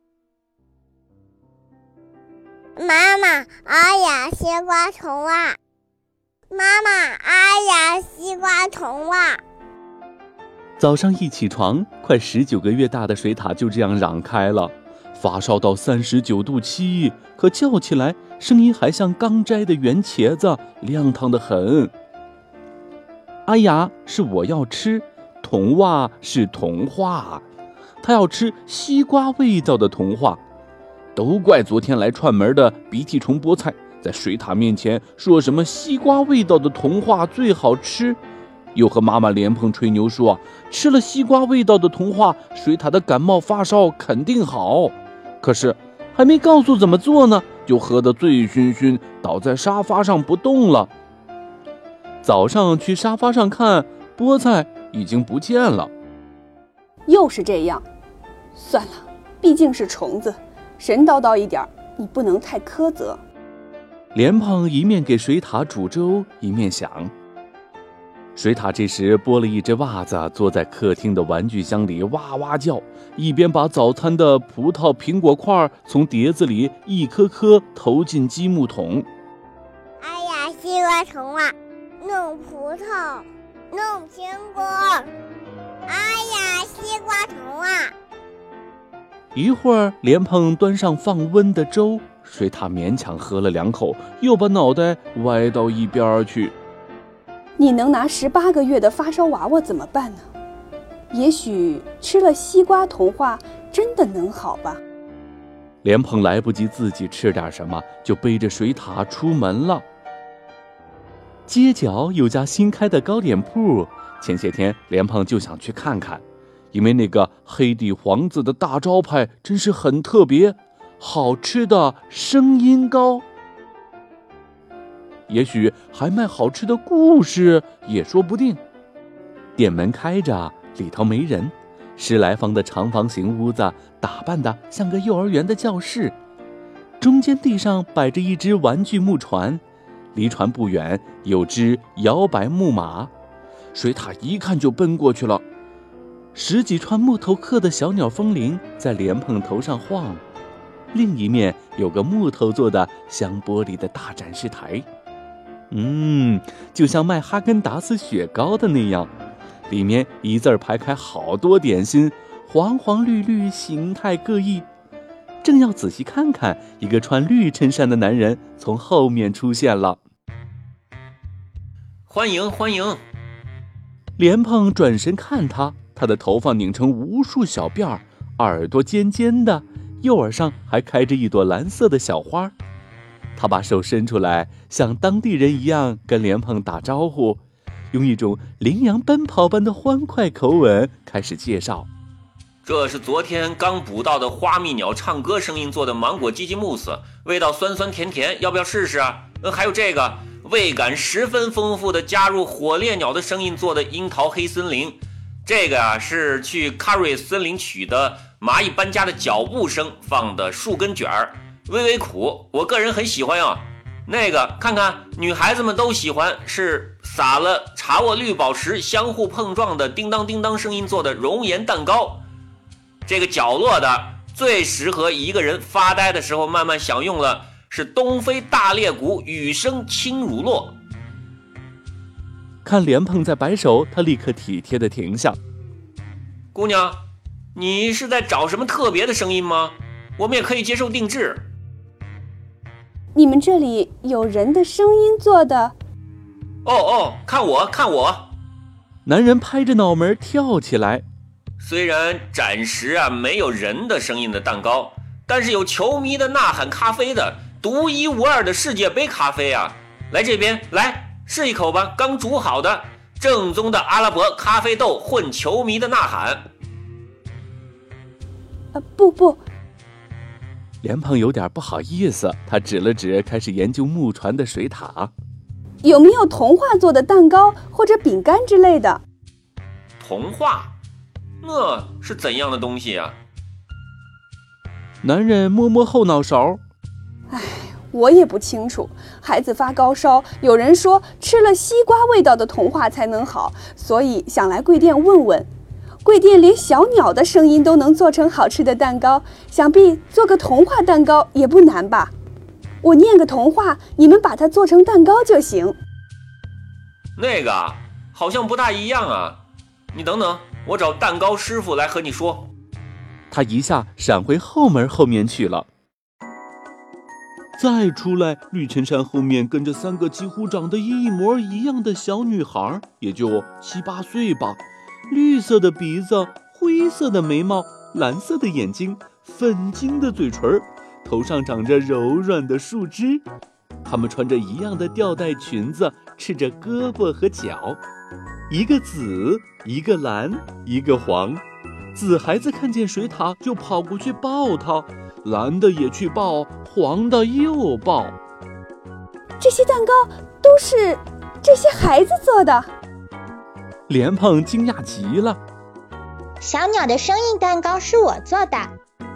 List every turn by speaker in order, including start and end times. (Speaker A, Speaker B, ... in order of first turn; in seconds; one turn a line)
Speaker A: 2.8-5.6
Speaker A: 6.5-9.4
Speaker B: 10.8-21.9
Speaker B: 23.5-27.4
Speaker B: 28.0-30.4
Speaker B: 31.1-38.2
Speaker B: 38.8-50.9
Speaker B: 52.2-55.9
Speaker C: 57.1-57.9
Speaker C: 58.5-63.2
Speaker B: 64.1-67.1
Speaker B: 68.3-79.1
Speaker A: 80.0-85.1
Speaker A: 85.9-87.9
Speaker B: 89.3-96.5
Speaker C: 97.6-100.3
Speaker C: 101.1-104.8
Speaker B: 105.8-109.8
Speaker B: 111.5-123.2
Speaker B: 125.3-128.6
Speaker B: 129.6-136.2
Speaker B: 137.0-139.6
Speaker B: 140.1-143.1
Speaker B: 143.7-145.4
Speaker B: 146.3-150.2
Speaker B: 150.9-154.9
Speaker B: 155.7-159.1
Speaker B: 159.7-164.7
Speaker B: 165.4-170.0
Speaker D: 172.1-173.0
Speaker B: 174.2-182.5
Speaker B: 183.4-187.4
Speaker B: 187.9-191.9
Speaker D: 192.7-222.2
Speaker D: 223.1-230.7
Speaker B: 232.7-235.4
Speaker D: 236.5-237.0
Speaker D: 237.6-241.4
Speaker C: 243.1-245.8
Speaker D: 246.7-248.3
Speaker B: 249.1-251.1
Speaker D: 251.6-266.4
Speaker C: 268.7-269.4
Speaker B: 270.8-275.1
Speaker C: 275.8-279.0
Speaker D: 280.0-280.7
Speaker D: 281.4-283.2
Speaker B: 285.0-286.6
Speaker C: 287.3-295.5
Speaker C: 296.0-302.1
Speaker C: 302.8-305.8
Speaker D: 307.2-309.4
Speaker D: 309.9-312.5
Speaker B: 313.3-315.7
Speaker B: 317.6-333.3
Speaker B: 333.9-337.8
Speaker B: 338.5-341.4
Speaker B: 341.9-348.2
Speaker C: 349.4-352.7
Speaker B: 353.9-355.4
Speaker E: 356.4-358.7